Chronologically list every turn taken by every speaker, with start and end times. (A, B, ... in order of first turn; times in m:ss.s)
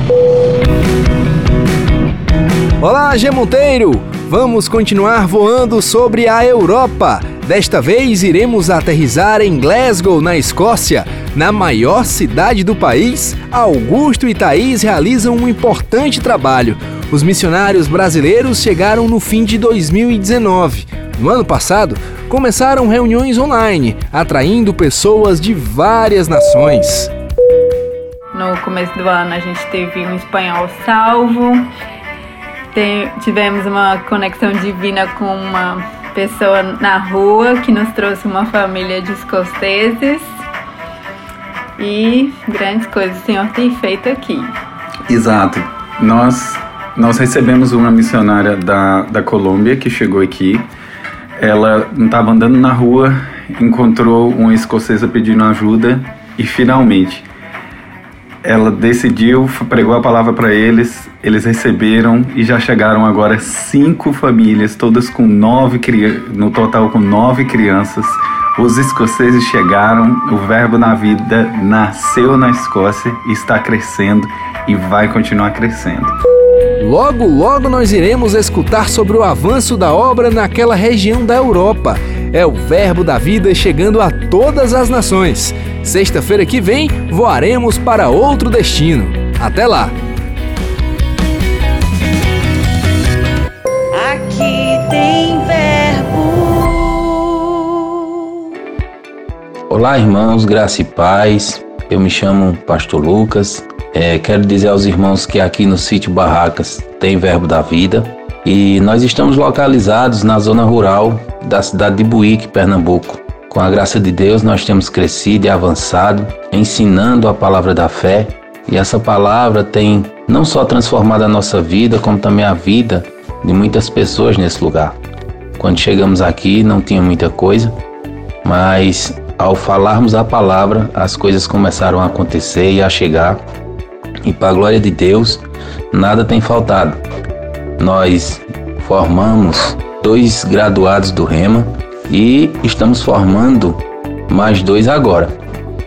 0:02.8-0:27.1 A
0:28.3-0:31.7 B
0:32.7-0:40.3 B
0:41.8-0:44.5 B
0:45.1-0:50.7 C
0:51.4-0:57.2 C
0:58.4-1:16.1 C
1:16.8-1:29.9 A
1:33.9-1:37.6 D
1:39.7-2:05.0 E
2:05.6-2:07.8 E
2:08.4-2:13.4 E
2:14.2-2:17.0 E
2:17.8-2:25.3 E